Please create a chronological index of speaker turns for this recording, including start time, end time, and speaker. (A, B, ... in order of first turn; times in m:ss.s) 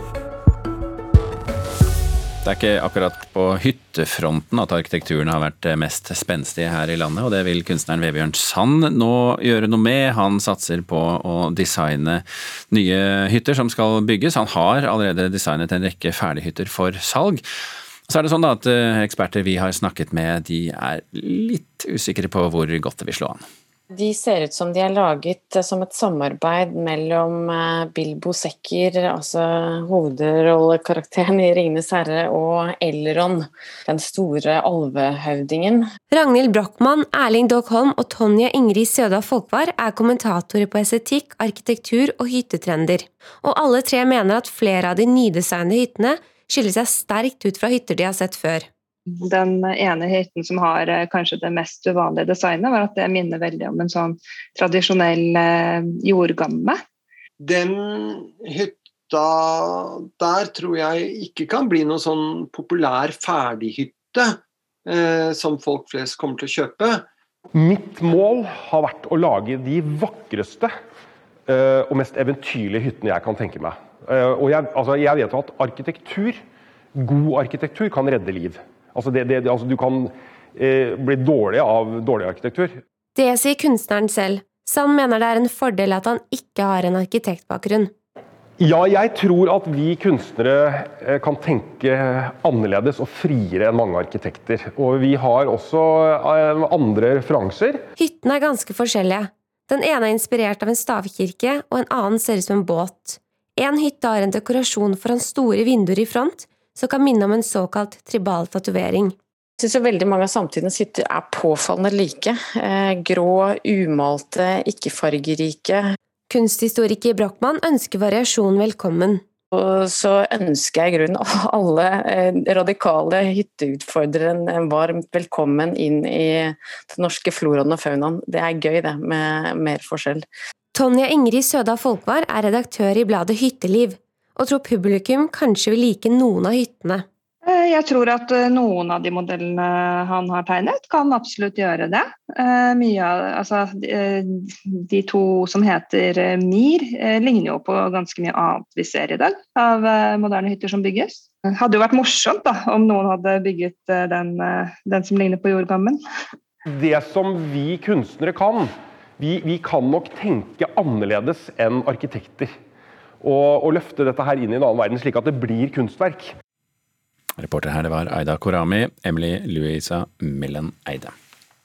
0:02.4-0:17.4 A
0:18.1-0:23.4 A
0:24.0-0:35.8 B
0:36.1-0:48.7 C
0:49.2-0:56.8 D
0:57.4-1:07.0 E
1:07.8-1:10.6 F
1:12.1-1:13.4 F
1:14.4-1:16.2 F
1:17.2-1:18.5 F
1:19.1-1:19.8 F
1:21.5-1:22.5 F
1:23.2-1:27.9 C
1:28.7-1:30.4 F
1:32.7-1:35.7 F
1:36.8-1:37.5 F
1:38.0-1:49.2 C
1:49.6-1:55.8 B
1:56.3-1:59.2 C
1:59.6-2:10.2 B
2:10.7-2:17.0 C
2:17.4-2:36.0 D
2:36.8-2:38.5 F
2:39.2-2:42.4 F
2:43.7-2:46.1 F
2:47.4-2:51.1 A